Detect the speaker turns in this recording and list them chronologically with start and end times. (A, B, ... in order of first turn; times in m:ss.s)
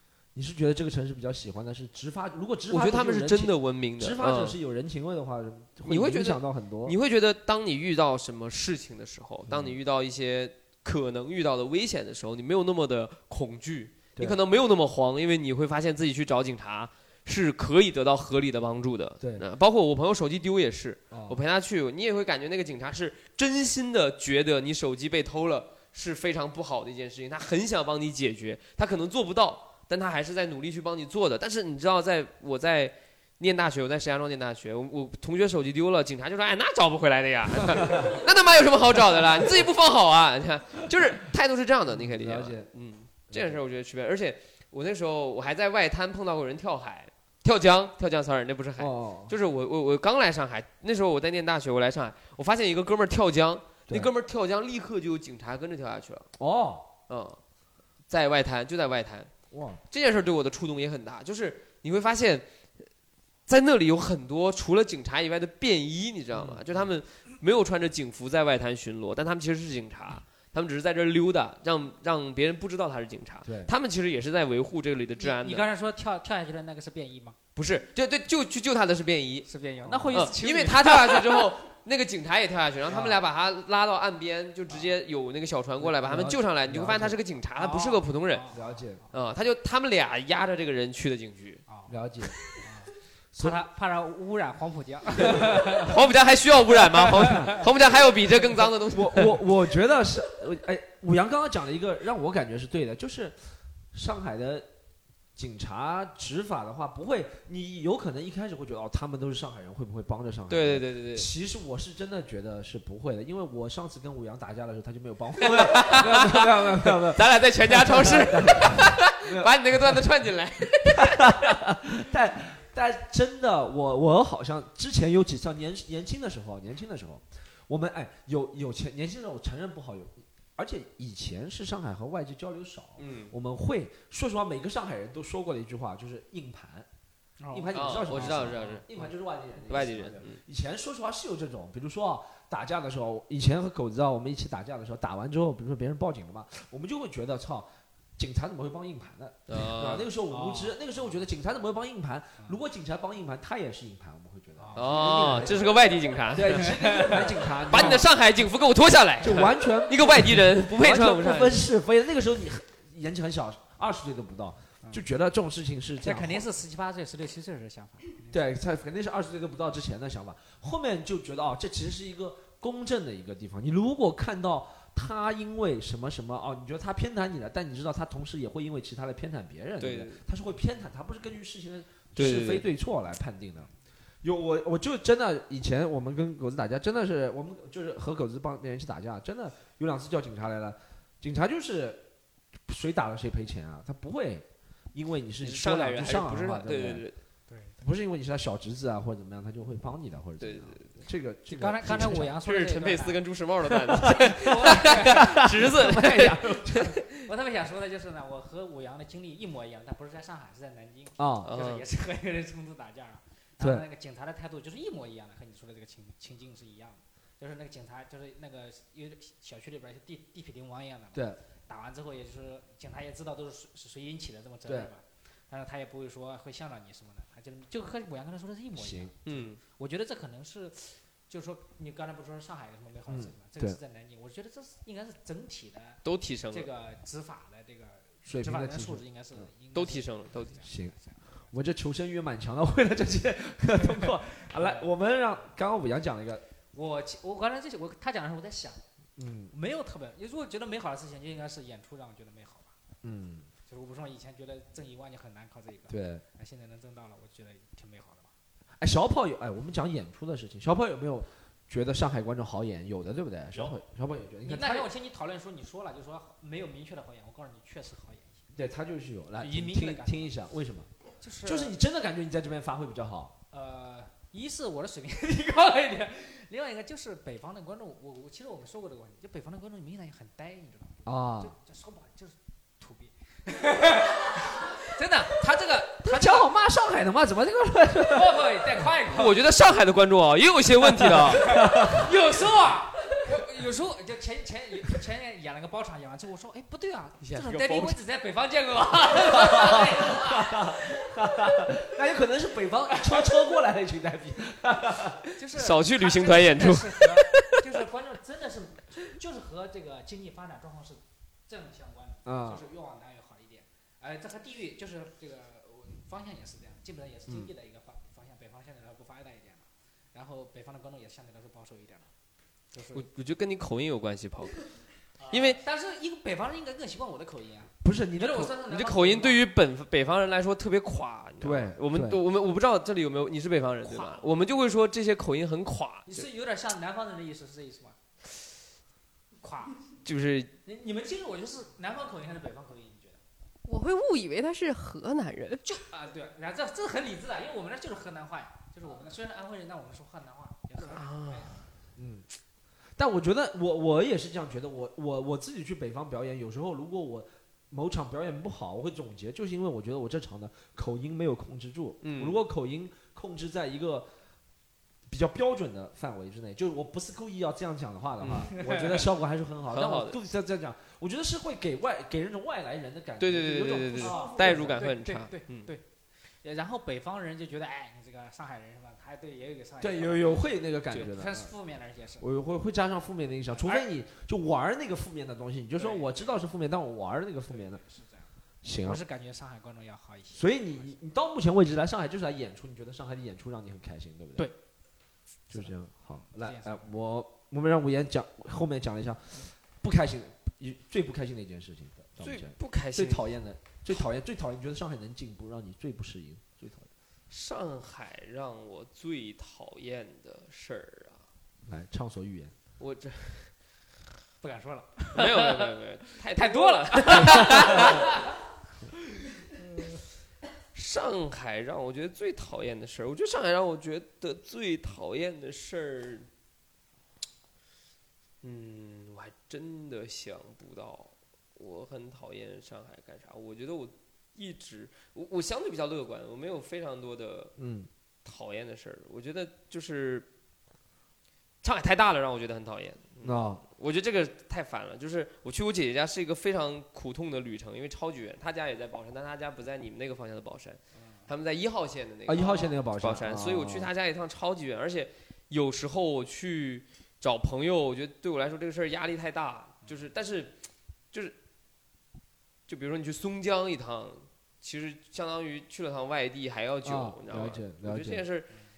0:00.3-0:07.0 A
0:02.7-0:04.6 B
0:05.8-0:56.3 B
0:09.5-0:09.8 A
0:19.2-0:19.4 A
0:21.1-0:21.4 A
0:37.7-0:38.2 A
0:41.9-0:42.7 A
0:43.3-0:43.6 A
0:48.8-0:49.4 A
0:56.4-0:56.9 A
0:57.1-0:57.4 B
0:58.1-0:59.3 B
0:59.5-0:59.8 A
0:59.9-1:02.4 B
1:03.5-1:15.6 B
1:06.3-1:06.9 A
1:13.4-1:13.7 A
1:15.2-1:17.4 C
1:17.6-1:19.5 B
1:19.5-1:21.4 C
1:19.8-1:20.3 A
1:20.1-1:28.5 B
1:22.9-1:23.2 A
1:25.8-1:27.2 A
1:27.6-1:28.6 C
1:28.5-1:29.0 A
1:29.1-1:31.6 B
1:31.7-1:31.9 C
1:31.9-1:32.4 A
1:32.6-1:35.9 C
1:33.3-1:33.6 A
1:35.2-1:35.5 A
1:35.8-1:39.5 B
1:37.2-1:37.6 C
1:38.9-1:43.4 A
1:43.9-1:44.7 A
1:45.4-2:00.0 A
1:50.5-1:51.3 B
1:55.4-2:01.6 B
2:01.0-2:16.9 A
2:13.0-2:13.3 B
2:17.4-2:19.1 C
2:17.5-2:35.7 A
2:17.7-2:18.8 B
2:19.7-2:20.4 B
2:29.5-2:30.1 B
2:30.3-2:30.8 C
2:34.6-2:35.5 C
2:34.8-2:41.7 B
2:36.3-2:38.1 A
2:36.6-2:38.0 C
2:39.2-2:46.4 A
2:46.0-2:48.4 C
2:48.3-3:12.0 A
2:59.8-3:00.2 B
3:02.2-3:02.7 B
3:12.7-3:17.0 A
3:15.4-3:17.2 B
3:17.5-3:17.8 C
3:17.8-3:22.3 A
3:20.4-3:21.0 B
3:21.5-3:23.2 C
3:21.9-3:27.1 B
3:23.7-3:26.9 A
3:24.2-3:25.4 C
3:27.1-3:56.0 C
3:31.2-3:31.5 A
3:31.4-3:31.8 B
3:33.6-3:33.8 A
3:41.1-3:41.4 A
3:44.6-3:44.9 A
3:48.7-3:49.1 A
3:49.2-3:49.6 B
3:53.1-3:53.8 A
3:56.0-3:56.7 B
3:56.5-4:01.2 C
3:58.2-3:59.5 A
3:59.7-4:00.6 B
4:00.6-4:00.9 A
4:01.5-4:06.4 A
4:03.8-4:04.9 C
4:06.7-4:08.8 C
4:09.2-4:09.5 A
4:09.5-4:12.7 C
4:13.0-4:13.5 A
4:13.7-4:18.3 C
4:15.9-4:16.2 A
4:18.8-4:24.9 A
4:24.4-4:28.4 C
4:28.5-4:30.9 A
4:29.4-4:30.3 C
4:31.2-4:31.8 C
4:31.4-4:33.3 A
4:33.5-4:46.5 C
4:41.0-4:41.5 A
4:46.0-4:48.8 A
4:48.1-4:49.4 C
4:49.1-4:51.4 B
4:50.9-4:52.1 A
4:51.4-5:00.9 C
4:57.2-4:58.0 B
4:59.3-5:05.2 A
5:05.4-5:22.1 C
5:05.5-5:07.5 B
5:12.2-5:12.6 A
5:22.7-5:23.1 C
5:22.9-5:24.6 B
5:25.2-5:29.4 C
5:25.3-5:25.6 B
5:27.8-5:28.6 A
5:28.7-5:36.3 B
5:31.4-5:32.2 A
5:33.8-5:34.3 C
5:36.0-5:38.0 C
5:39.4-5:39.8 C
5:40.0-5:40.5 B
5:40.6-5:43.2 C
5:43.6-5:45.6 D
5:45.6-5:51.6 C
5:50.8-5:51.6 B
5:52.0-5:52.2 A
5:53.0-6:04.1 A
6:02.0-6:02.4 B
6:05.1-6:14.8 A
6:08.2-6:08.5 B
6:08.5-6:09.0 C
6:09.7-6:10.2 B
6:13.2-6:15.7 B
6:14.0-6:15.8 C
6:16.4-6:22.2 C
6:19.8-6:21.5 A
6:22.2-6:27.8 A
6:23.5-6:23.9 C
6:25.7-6:26.4 C
6:27.5-6:28.3 C
6:28.6-6:29.0 A
6:28.8-6:30.9 C
6:30.3-6:34.5 A
6:35.5-6:36.9 C
6:35.5-6:46.9 A
6:42.2-6:43.3 B
6:47.3-6:51.2 B
6:51.6-6:52.5 A
6:52.8-6:53.5 B
6:54.4-6:58.4 C
6:55.1-6:58.1 B
6:59.6-6:59.9 C
7:00.7-7:06.3 B
7:08.4-7:17.5 B
7:17.6-7:17.9 A
7:18.2-7:20.3 B
7:21.6-7:40.6 B
7:23.2-7:23.6 A
7:32.2-7:33.9 A
7:42.7-7:48.5 B
7:46.8-7:48.2 A